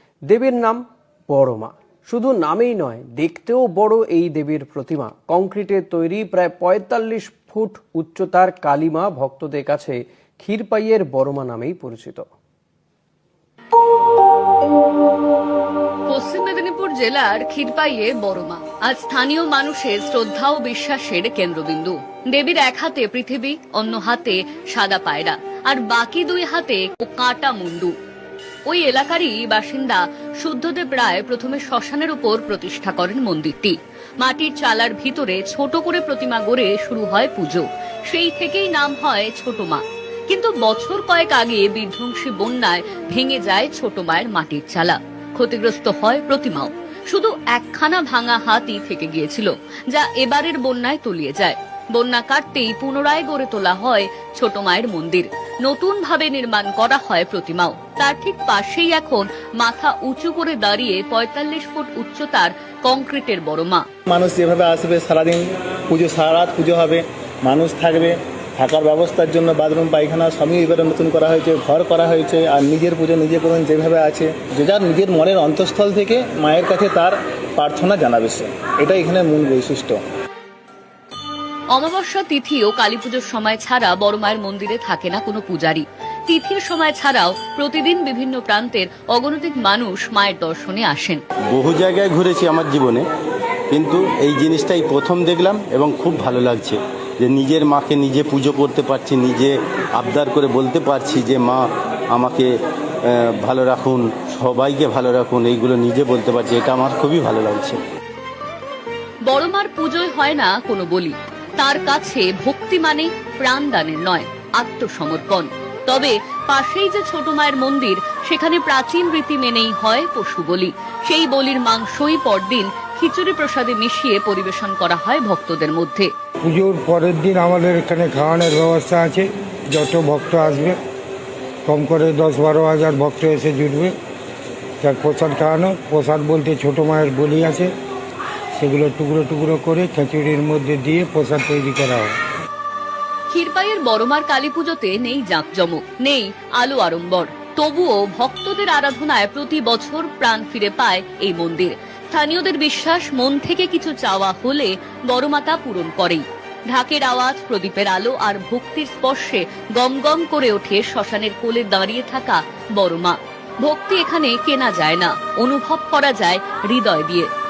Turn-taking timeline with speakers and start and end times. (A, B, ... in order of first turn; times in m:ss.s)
0:00.3-0:12.2 A
0:16.1-0:27.9 B
0:28.7-1:03.9 B
1:04.1-1:20.0 C
1:21.7-1:31.2 B
1:31.5-1:33.0 D
1:33.7-1:42.5 D
1:43.1-1:47.8 D
1:49.3-2:06.1 B
2:06.4-2:10.8 E
2:11.7-2:13.9 E
2:14.8-2:17.7 E
2:18.6-2:22.2 E
2:23.3-2:47.3 B